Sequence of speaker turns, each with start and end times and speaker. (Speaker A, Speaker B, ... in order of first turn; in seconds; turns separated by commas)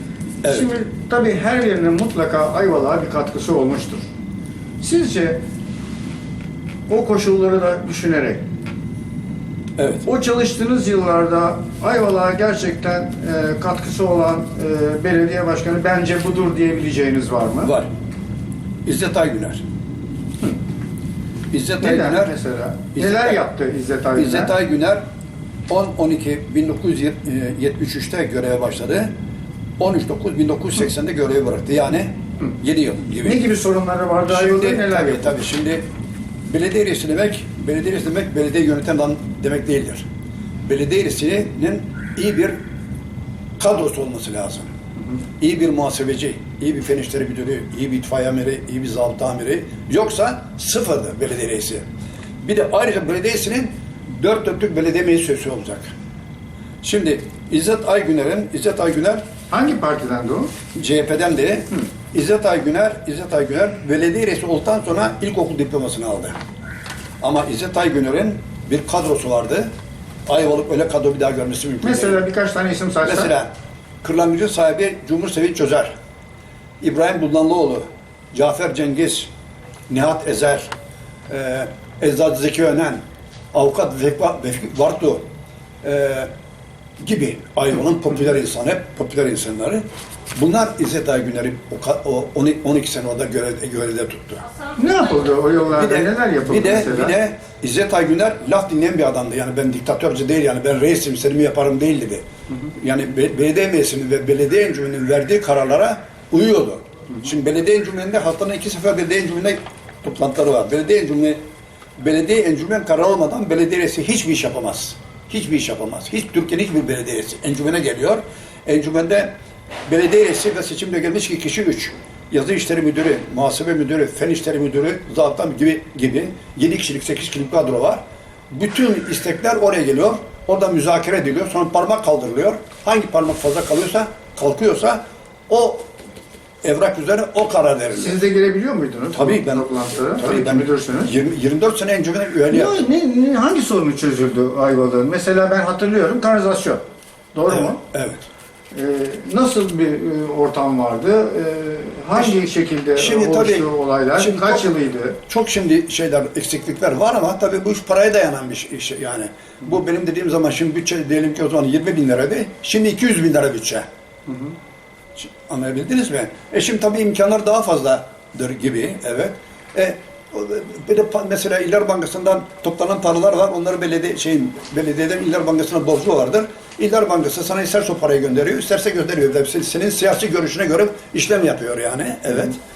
Speaker A: 0.4-0.7, Speaker B: 0.5-4.0, Speaker B: 4.8-5.4, Speaker B: 6.9-8.4, Speaker A: 9.8-10.1, Speaker B: 10.0-17.7, Speaker A: 17.6-17.9, Speaker A: 18.9-19.6, Speaker A: 21.5-22.3, Speaker B: 21.8-24.5, Speaker A: 22.9-23.4, Speaker A: 24.2-25.0, Speaker A: 25.7-29.1, Speaker A: 29.8-33.4, Speaker B: 33.2-35.4, Speaker A: 34.3-35.9, Speaker A: 36.5-40.1, Speaker A: 40.7-42.6, Speaker A: 43.6-44.7, Speaker A: 45.4-51.8, Speaker A: 52.4-55.9, Speaker A: 56.8-59.2, Speaker B: 59.5-60.5, Speaker A: 60.8-66.3, Speaker A: 67.2-69.7, Speaker A: 70.3-72.2, Speaker B: 71.8-73.3, Speaker A: 73.0-73.5, Speaker A: 74.0-75.9, Speaker A: 76.8-79.3, Speaker A: 79.9-80.7, Speaker A: 81.3-83.0, Speaker A: 83.5-85.2, Speaker A: 85.8-86.3, Speaker A: 87.0-89.8, Speaker A: 90.4-94.5, Speaker B: 94.8-97.1, Speaker A: 95.7-102.2, Speaker A: 102.8-111.4, Speaker A: 112.0-119.3, Speaker A: 119.9-135.9, Speaker A: 136.6-138.2, Speaker B: 137.9-141.1, Speaker A: 139.1-139.7, Speaker A: 140.2-142.8, Speaker B: 142.5-146.8, Speaker B: 147.3-147.8, Speaker A: 147.5-148.2, Speaker B: 148.7-155.2, Speaker A: 153.0-154.7, Speaker A: 155.3-163.8, Speaker B: 164.3-164.5, Speaker A: 165.2-182.6